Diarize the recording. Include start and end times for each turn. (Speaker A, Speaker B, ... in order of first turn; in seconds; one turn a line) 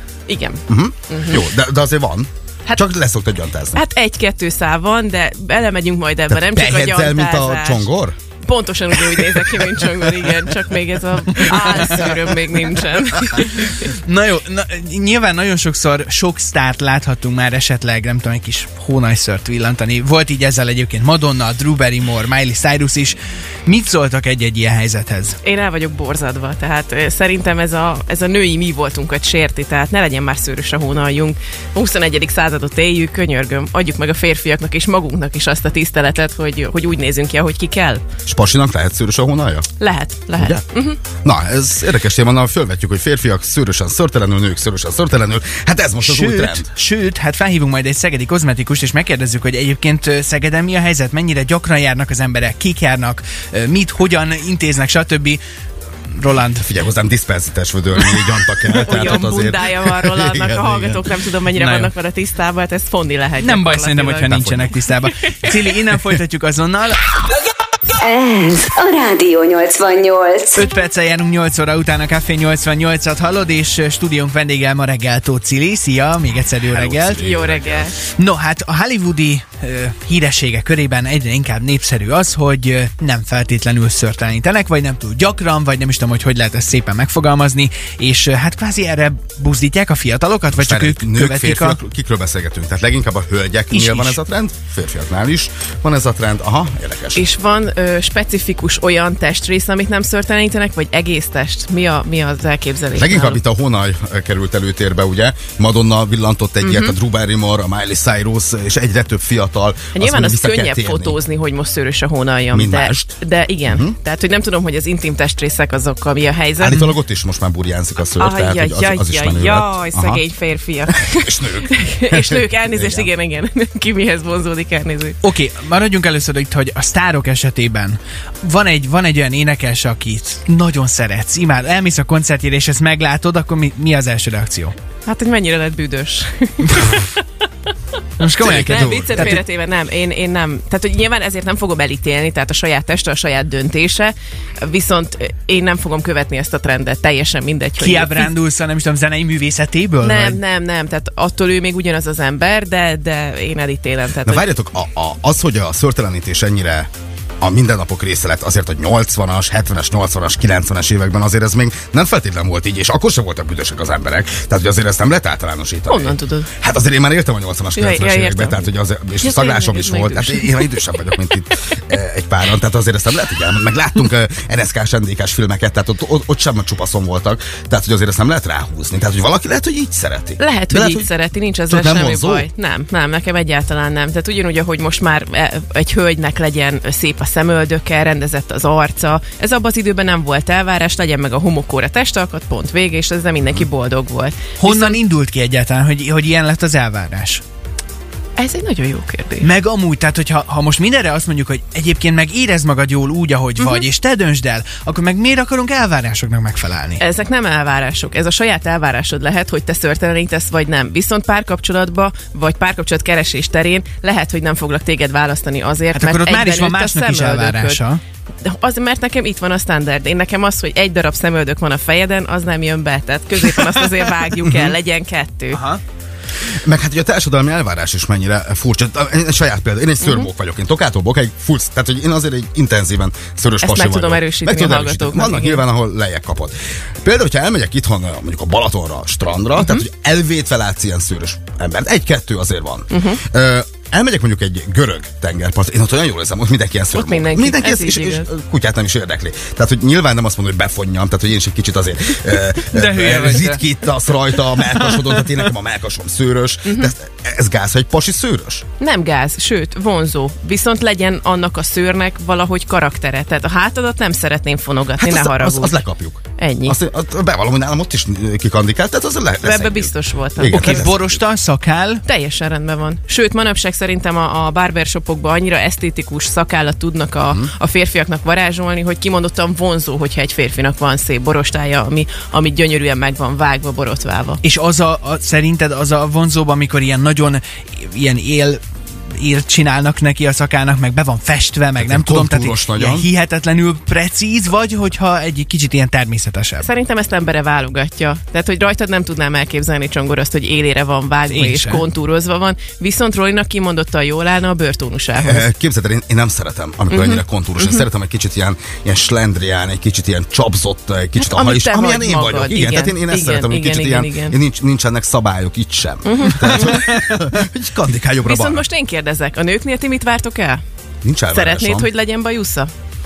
Speaker A: 0.3-1.5
Speaker B: 0.7-3.8
Speaker A: 3.7-7.9
Speaker B: 6.3-8.2
Speaker A: 8.5-13.9
Speaker B: 9.3-9.7
Speaker C: 11.3-12.2
Speaker C: 13.3-25.4
Speaker A: 25.4-38.0
Speaker B: 38.3-39.7
Speaker A: 39.8-41.0
Speaker B: 40.4-40.6
Speaker B: 41.2-46.7
Speaker C: 46.0-55.4
Speaker C: 56.1-56.7
Speaker B: 56.5-61.0
Speaker A: 58.7-64.3
Speaker C: 61.6-61.9
Speaker C: 63.4-67.0
Speaker B: 64.2-64.7
Speaker D: 68.0-70.6
Speaker C: 70.5-77.2
Speaker B: 76.7-77.9
Speaker A: 77.2-78.0
Speaker C: 78.2-91.8
Speaker B: 90.5-97.2
Speaker C: 93.7-94.2
Speaker A: 97.2-103.4
Speaker B: 103.0-111.2
Speaker A: 106.6-107.0
Speaker A: 109.9-116.9
Speaker B: 112.5-114.0
Speaker B: 116.6-120.2
Speaker A: 118.2-125.2
Speaker B: 121.1-123.1
Speaker C: 125.2-134.7
Speaker A: 135.1-137.2
Speaker C: 138.2-139.4
Speaker B: 138.4-139.4
Speaker A: 138.4-148.3
Speaker C: 147.8-150.4
Speaker A: 150.0-154.5
Speaker B: 154.2-156.9
Speaker B: 157.4-181.1
Speaker A: 165.9-166.5
Speaker A: 167.8-168.7
Speaker A: 169.2-171.2
Speaker A: 180.4-195.0
Speaker B: 181.7-182.5
Speaker C: 194.6-197.4
Speaker A: 198.4-199.5
Speaker C: 199.4-207.0
Speaker A: 203.6-203.8
Speaker A: 207.0-217.8
Speaker C: 215.9-218.0
Speaker A: 218.4-225.6
Speaker B: 224.4-224.8
Speaker C: 225.5-225.8
Speaker B: 226.6-258.6
Speaker A: 230.0-230.3
Speaker A: 233.6-235.7
Speaker A: 239.6-239.8
Speaker A: 242.9-243.2
Speaker A: 246.9-248.3
Speaker C: 252.7-253.7
Speaker C: 254.9-255.2
Speaker A: 256.7-256.9
Speaker A: 258.8-265.8
Speaker B: 265.0-271.2
Speaker A: 266.4-266.8
Speaker A: 269.4-270.9
Speaker C: 270.4-272.0
Speaker A: 272.1-284.4
Speaker C: 284.4-288.6
Speaker C: 289.2-296.7
Speaker B: 291.8-293.1
Speaker A: 296.6-305.5
Speaker C: 301.3-301.8
Speaker B: 305.2-318.6
Speaker A: 306.9-307.9
Speaker A: 311.2-314.4
Speaker A: 316.1-316.9
Speaker C: 316.5-317.2
Speaker A: 318.2-320.6
Speaker B: 321.0-321.9
Speaker A: 321.3-322.7